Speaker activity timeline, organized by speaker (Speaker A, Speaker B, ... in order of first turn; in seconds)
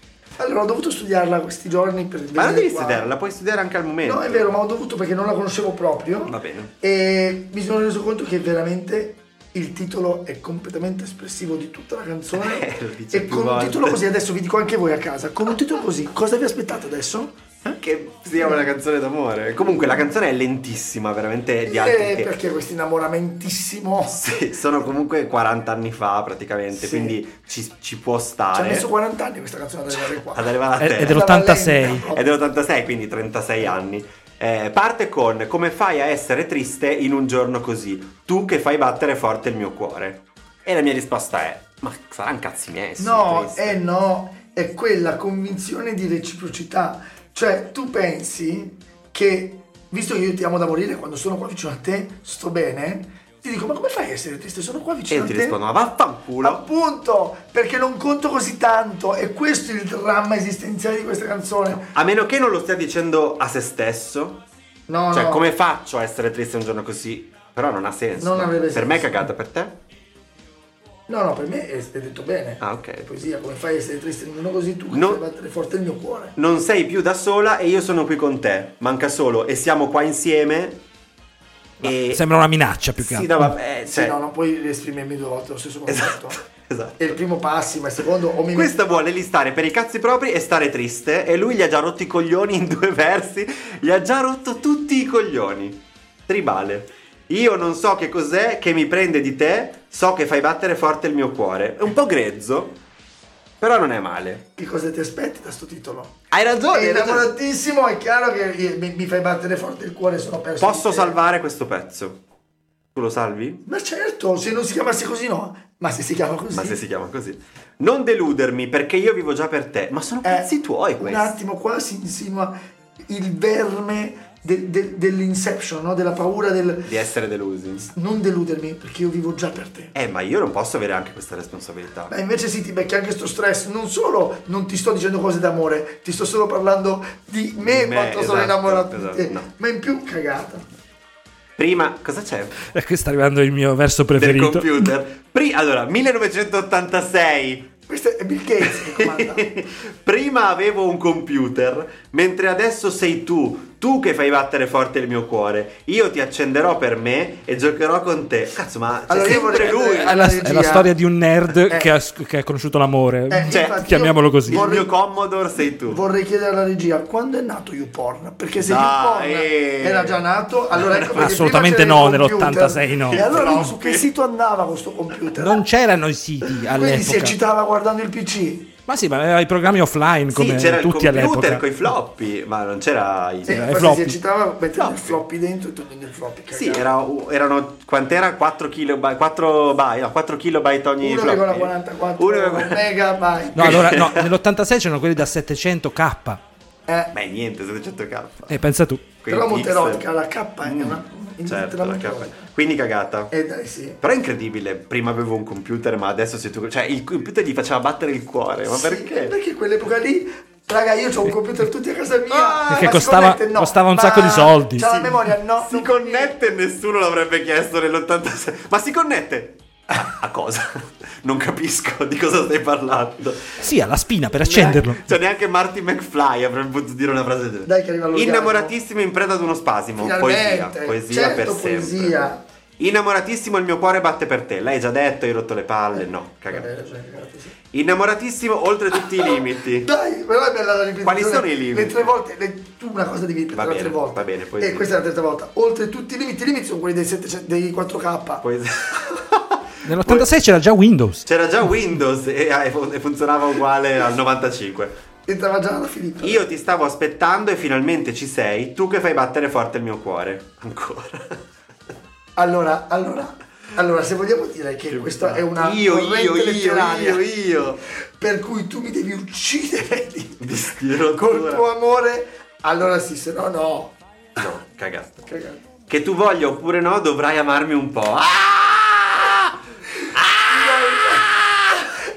Speaker A: 0.4-3.1, 4.0-17.3, 18.4-18.7, 19.6-20.0, 21.6-24.2, 26.7-27.2, 28.5-30.5, 31.1-32.2, 43.0-55.6, 56.4-61.9, 64.9-65.5, 68.2-69.1, 71.1-76.4, 83.8-86.4, 87.0-88.8, 104.6-106.2, 106.7-111.2, 113.7-116.8, 120.2-122.6, 123.1-127.0, 127.9-129.9, 132.1-140.7, 147.9-149.5, 159.1-160.9, 161.7-161.9, 163.3-165.0, 165.9-175.6, 176.5-178.7, 183.5-186.9, 191.0-193.9, 196.9-197.1, 199.3-202.5, 203.3-204.0, 208.7-216.5, 227.7-228.7, 230.0-232.4, 236.0-237.5, 239.2-248.4, 255.3-256.4, 262.4-267.2, 268.2-273.9, 275.3-275.6, 280.5-281.3
Speaker B: 2.4-4.5, 6.3-6.7, 12.3-14.0, 17.6-22.3, 24.1-28.9, 29.9-31.2, 32.1-43.8, 55.1-56.6, 61.9-64.4, 65.1-69.8, 72.6-73.1, 74.9-75.2, 76.4-80.8, 81.8-82.2, 83.0-84.2, 85.9-87.2, 88.5-102.8, 103.6-104.4, 106.3-107.3, 110.6-112.2, 113.0-113.6, 116.5-121.4, 126.8-127.9, 129.9-132.1, 137.6-139.5, 141.6-142.6, 144.2-147.7, 148.6-160.2, 163.5-163.8, 164.5-166.0, 168.6-170.2, 173.1-174.1, 180.3-183.6, 184.7-185.2, 186.5-192.9, 193.6-194.3, 197.1-198.5, 199.2-200.1, 200.6-203.3, 204.0-209.3, 212.3-212.9, 215.6-223.6, 224.4-232.2, 232.8-236.7, 237.7-239.9, 241.0-242.1, 243.5-244.9, 248.4-250.3, 251.2-254.9, 256.2-261.4, 264.9-267.8, 270.4-271.7, 274.4-275.2, 275.9-279.5, 280.1-281.9
Speaker C: 30.8-32.0, 81.8-83.5, 142.7-144.7, 160.0-164.7, 170.9-173.4, 175.3-177.4, 178.9-181.6, 183.5-184.2, 193.6-196.4, 198.5-199.1, 212.7-215.0, 223.6-225.0, 249.8-251.2